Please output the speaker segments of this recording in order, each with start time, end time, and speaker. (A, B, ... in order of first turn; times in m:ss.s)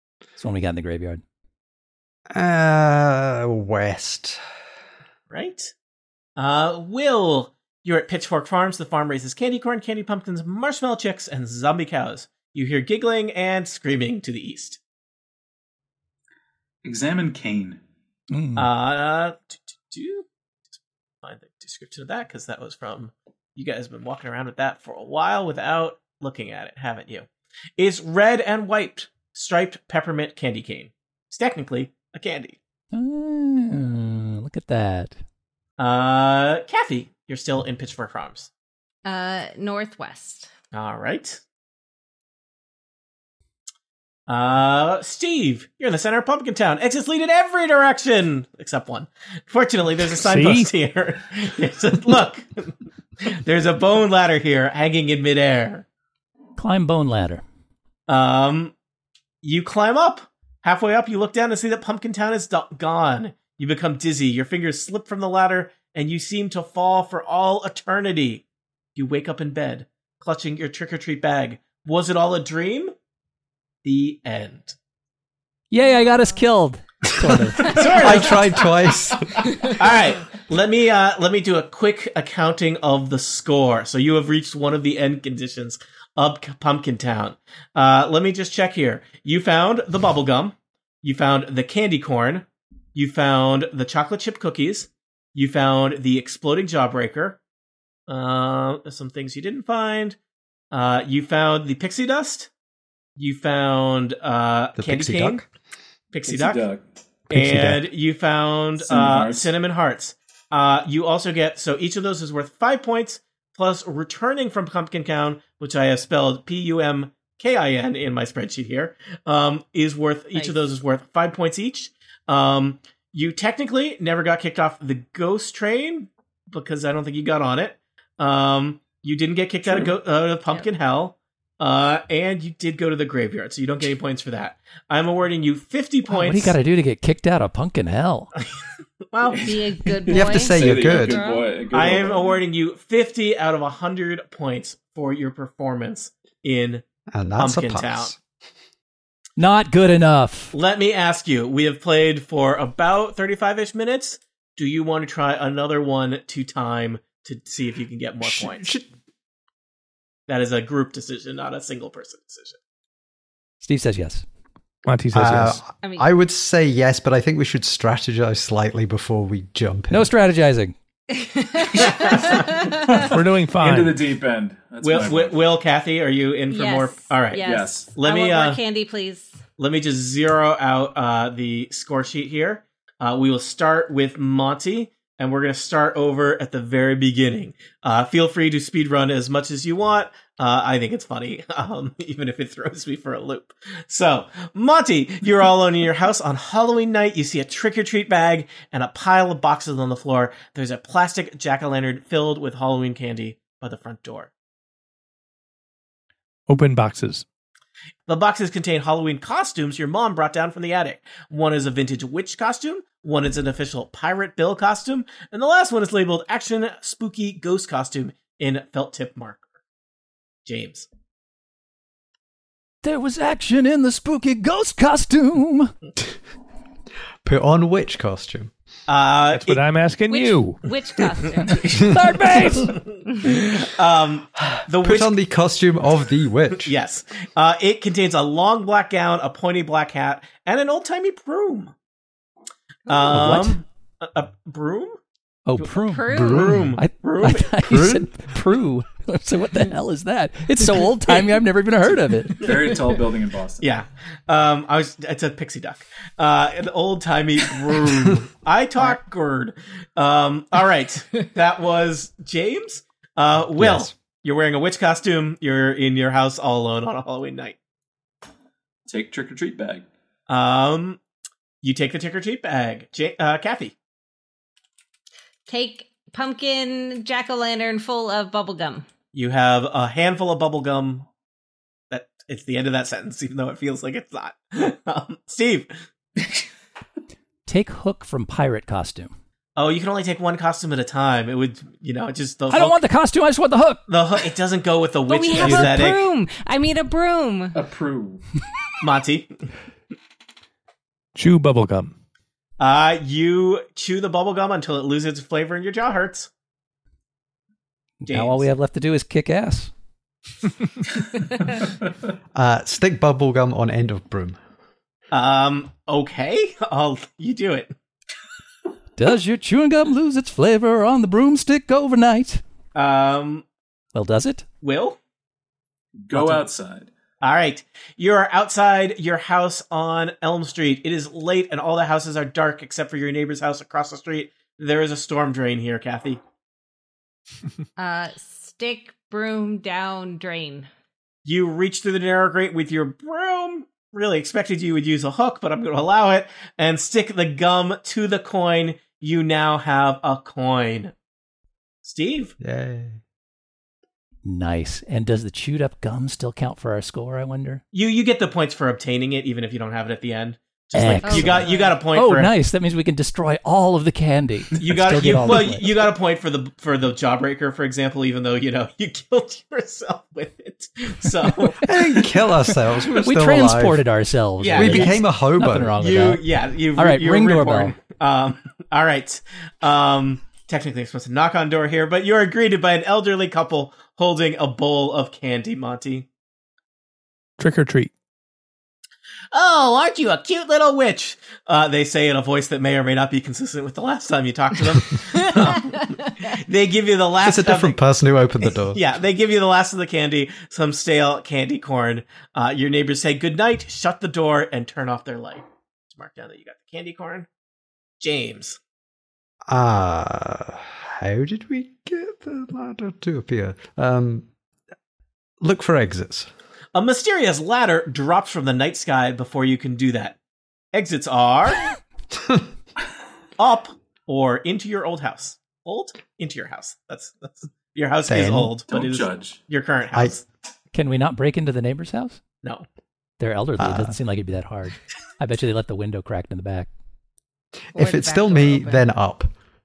0:00.4-0:01.2 A
0:02.3-0:04.4 B
0:05.3-0:05.7 C
0:06.4-0:14.8 C
0:16.8-0:17.8 D
0:18.3-0:18.7 A
0:18.6-0:20.3 C
0:21.2-0:27.3 C
0:27.8-0:32.6 C
0:32.9-0:35.2 A
0:35.8-0:38.5 C
0:39.0-0:40.5 E
0:40.7-0:41.4 C
0:44.3-0:55.8 C
0:50.1-0:50.7 F
0:56.6-0:57.4 A
0:58.1-0:58.7 C
0:59.4-1:08.4 C
1:09.0-1:12.9 C
1:13.8-1:14.8 C
1:15.7-1:17.9 A
1:15.8-1:16.2 E
1:17.6-1:18.5 C
1:17.7-1:19.4 B
1:19.7-1:37.4 C
1:38.1-1:40.2 C
1:40.7-1:42.5 C
1:43.2-1:45.4 C
1:44.8-1:45.4 B
1:46.1-1:46.6 C
1:46.3-1:46.8 D
1:47.3-1:47.8 B
1:47.3-2:16.6 C
1:48.8-1:49.5 D
2:09.6-2:10.0 D
2:16.1-2:18.3 A
2:19.1-2:19.6 C
2:19.3-2:22.4 D
2:19.4-2:21.5 E
2:20.1-2:21.2 B
2:21.7-2:26.8 C
2:27.1-2:28.2 B
2:27.4-2:28.1 C
2:29.4-2:30.5 A
2:30.5-2:38.7 C
2:38.2-2:38.9 B
2:40.3-2:42.6 C
2:43.6-2:44.2 A
2:44.9-2:45.7 F
2:45.1-2:50.1 B
2:45.8-2:46.1 E
2:49.9-2:50.7 A
2:51.1-2:52.9 E
2:51.7-2:52.5 C
2:51.9-2:55.4 D
2:53.0-2:54.1 F
2:54.8-2:58.6 C
2:56.5-2:59.4 E
2:57.4-2:58.0 D
2:59.6-3:24.3 C
3:26.5-3:27.2 F
3:28.1-3:39.4 C
3:40.5-3:40.9 C
3:42.8-3:45.7 A
3:47.2-3:48.5 B
3:48.9-3:49.6 C
3:49.3-3:50.6 F
3:50.1-3:51.8 E
3:51.6-3:52.8 A
3:52.6-3:55.2 C
3:54.8-3:56.7 B
3:56.6-4:01.7 C
4:02.9-4:05.0 C
4:03.0-4:03.6 A
4:05.5-4:12.4 A
4:05.6-4:07.6 C
4:05.9-4:06.6 E
4:06.1-4:06.8 B
4:07.7-4:08.1 B
4:12.4-4:13.7 D
4:13.6-4:27.6 C
4:23.6-4:23.9 B
4:28.9-4:29.9 D
4:30.3-4:31.0 C
4:31.6-4:33.8 C
4:35.5-4:38.9 E
4:39.1-4:41.1 C
4:41.9-4:45.8 C
4:47.5-4:49.1 A
4:49.6-4:52.8 C
4:52.5-4:53.8 A
4:53.9-4:56.0 C
4:55.1-4:57.6 E
4:55.4-4:55.8 A
4:57.6-4:58.2 D
4:58.8-4:59.3 C
5:01.2-5:01.9 F
5:02.6-5:06.3 C
5:08.0-5:09.7 A
5:08.1-5:08.5 C
5:12.4-5:14.4 B
5:15.1-5:17.7 C
5:19.0-5:22.4 A
5:22.8-5:23.4 C
5:23.9-5:24.4 A
5:24.6-5:25.0 C
5:26.1-5:26.9 D
5:26.2-5:26.4 C
5:27.2-5:36.2 C
5:37.8-5:40.7 E
5:41.3-5:50.9 C
5:51.8-5:52.3 C
5:52.4-5:53.0 B
5:54.2-5:57.6 A
5:57.7-6:02.3 C
6:00.7-6:05.7 A
6:01.0-6:01.8 E
6:04.6-6:11.6 C
6:11.6-6:13.8 B
6:11.7-6:12.0 A
6:12.5-6:16.2 A
6:14.4-6:15.0 C
6:14.5-6:15.8 B
6:15.8-6:26.1 C
6:16.8-6:17.8 A
6:27.4-6:27.9 F
6:29.3-6:37.8 C
6:37.2-6:38.8 B
6:38.6-6:47.3 C
6:48.0-6:48.6 C
6:49.5-6:54.3 B
6:55.4-6:56.3 B
6:56.7-7:00.2 C
7:00.7-7:01.6 C
7:02.1-7:02.4 B
7:03.4-7:10.2 C
7:08.1-7:08.5 B
7:08.7-7:09.4 D
7:10.7-7:12.2 A
7:13.2-7:16.7 A
7:13.6-7:14.0 B
7:17.7-7:18.9 E
7:17.8-7:19.3 B